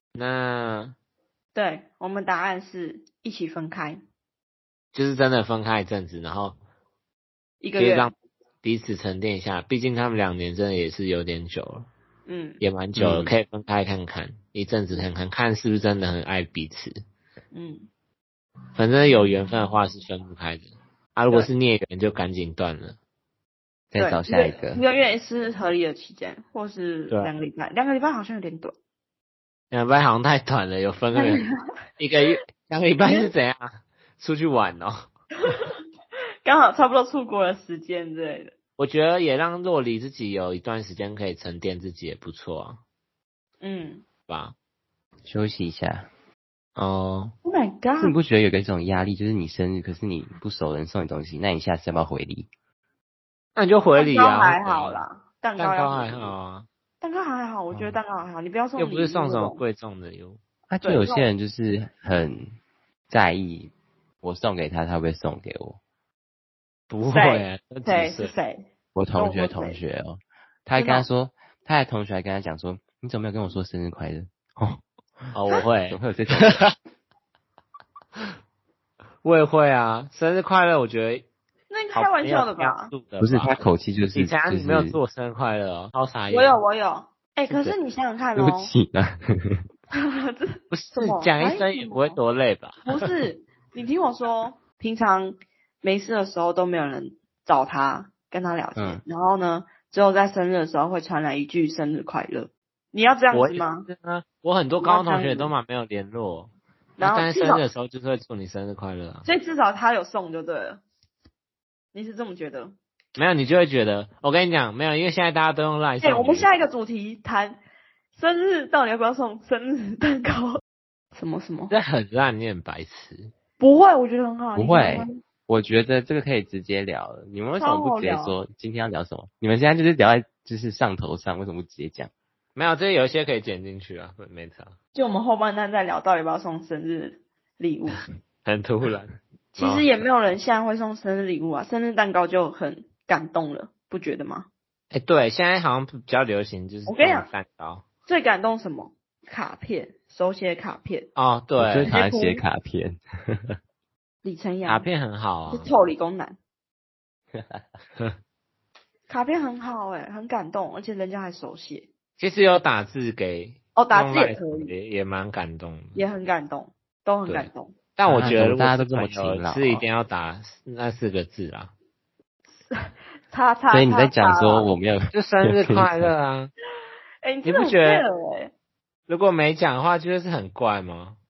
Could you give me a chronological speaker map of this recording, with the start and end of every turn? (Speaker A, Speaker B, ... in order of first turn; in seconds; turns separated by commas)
Speaker A: 0.1-0.9, Speaker B: 1.5-4.0, Speaker A: 4.9-6.6, Speaker B: 7.6-8.1, Speaker A: 7.8-11.9, Speaker B: 12.2-12.6, Speaker A: 12.6-17.0, Speaker C: 12.9-13.4, Speaker B: 17.5-17.9, Speaker A: 18.8-23.0, Speaker C: 23.9-24.8, Speaker B: 23.9-28.7, Speaker A: 29.7-31.4, Speaker B: 31.1-31.7, Speaker A: 32.0-35.0, Speaker B: 33.0-33.3, Speaker B: 36.4-38.5, Speaker A: 38.8-42.8, Speaker B: 43.6-44.0, Speaker A: 44.3-44.5, Speaker C: 45.2-46.1, Speaker A: 46.8-47.3, Speaker B: 47.4-48.2, Speaker C: 48.0-52.5, Speaker A: 53.5-55.0, Speaker B: 53.9-56.3, Speaker A: 55.6-56.7, Speaker B: 57.0-59.6, Speaker C: 57.7-58.0, Speaker A: 58.8-60.4, Speaker C: 60.7-62.5, Speaker B: 60.8-61.3, Speaker C: 63.1-65.8, Speaker A: 66.9-68.3, Speaker B: 67.1-68.6, Speaker C: 68.9-75.3, Speaker B: 69.2-69.8, Speaker B: 70.8-71.1, Speaker A: 75.3-76.7, Speaker C: 75.9-76.6, Speaker A: 79.2-81.2, Speaker B: 81.7-82.9, Speaker A: 81.9-83.6, Speaker C: 83.2-85.0, Speaker A: 84.1-86.6, Speaker B: 86.3-88.7, Speaker A: 87.5-87.8, Speaker C: 88.3-89.6, Speaker B: 89.9-92.2, Speaker A: 90.7-92.8, Speaker B: 92.8-103.9, Speaker C: 98.8-99.0, Speaker A: 103.3-109.3, Speaker B: 104.8-105.5, Speaker B: 107.0-107.7, Speaker B: 109.2-110.8, Speaker B: 111.9-112.7, Speaker A: 113.2-116.5, Speaker B: 116.0-117.6, Speaker B: 118.1-120.6, Speaker B: 121.1-121.7, Speaker A: 121.7-123.3, Speaker B: 123.6-125.2, Speaker C: 124.5-132.1, Speaker B: 127.5-128.4, Speaker A: 132.6-134.7, Speaker B: 134.9-138.0, Speaker A: 138.4-139.9, Speaker B: 139.6-144.5, Speaker A: 144.9-147.8, Speaker B: 146.9-147.3, Speaker B: 148.1-151.1, Speaker A: 151.2-151.9, Speaker C: 151.6-153.6, Speaker B: 151.8-152.4, Speaker B: 154.2-154.9, Speaker A: 154.6-155.7, Speaker B: 155.5-156.4, Speaker C: 157.3-157.6, Speaker B: 159.1-161.9, Speaker A: 162.2-166.0, Speaker B: 163.7-164.7, Speaker B: 165.9-167.7, Speaker A: 167.3-171.7, Speaker C: 168.1-169.8, Speaker B: 172.7-174.7, Speaker C: 173.7-176.1, Speaker A: 175.1-176.5, Speaker B: 177.2-178.5, Speaker A: 177.4-178.1, Speaker A: 179.1-181.2